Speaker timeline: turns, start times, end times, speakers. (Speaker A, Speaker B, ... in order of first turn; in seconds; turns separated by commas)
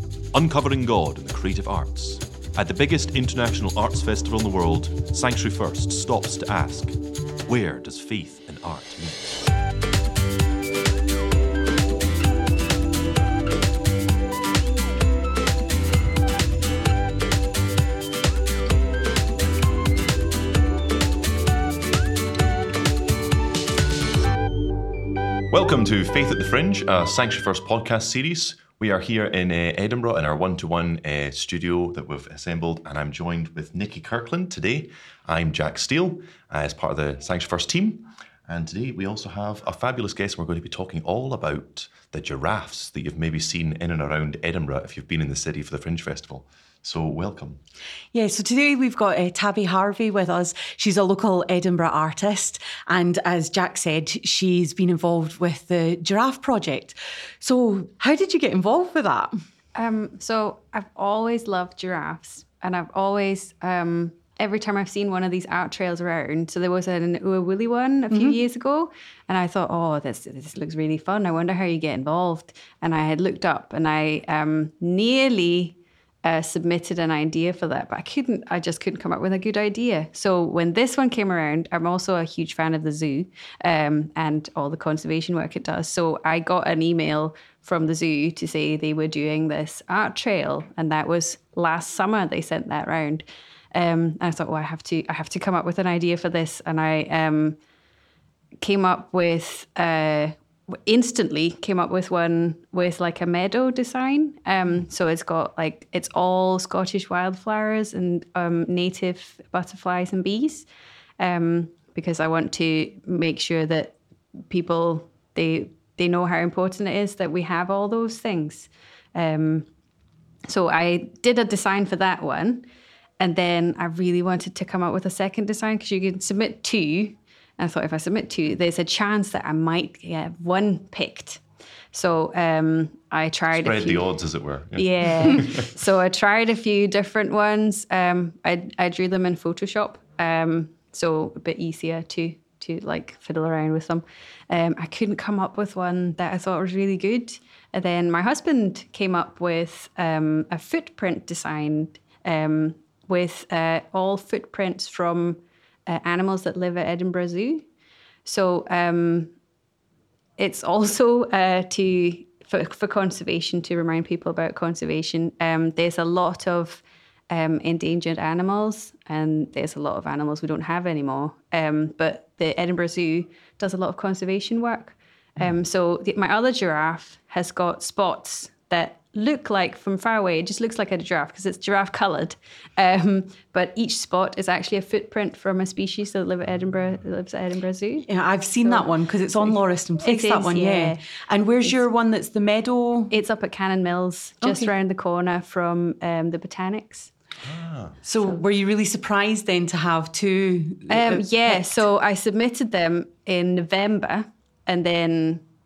Speaker A: 0.3-9.4, Speaker A: 25.5-47.6, Speaker B: 48.1-59.3, Speaker C: 59.7-97.6, Speaker B: 68.1-68.4, Speaker C: 98.6-110.7, Speaker C: 111.2-114.0, Speaker C: 114.5-119.7, Speaker C: 120.5-122.6, Speaker C: 123.2-131.4, Speaker C: 131.9-134.1, Speaker A: 133.5-135.7, Speaker C: 134.7-157.7, Speaker C: 158.2-159.3, Speaker C: 160.4-188.1, Speaker B: 188.1-193.1, Speaker C: 188.6-191.0, Speaker C: 193.1-197.1, Speaker B: 194.4-194.7, Speaker A: 197.4-198.0, Speaker B: 198.0-201.8, Speaker C: 200.9-205.4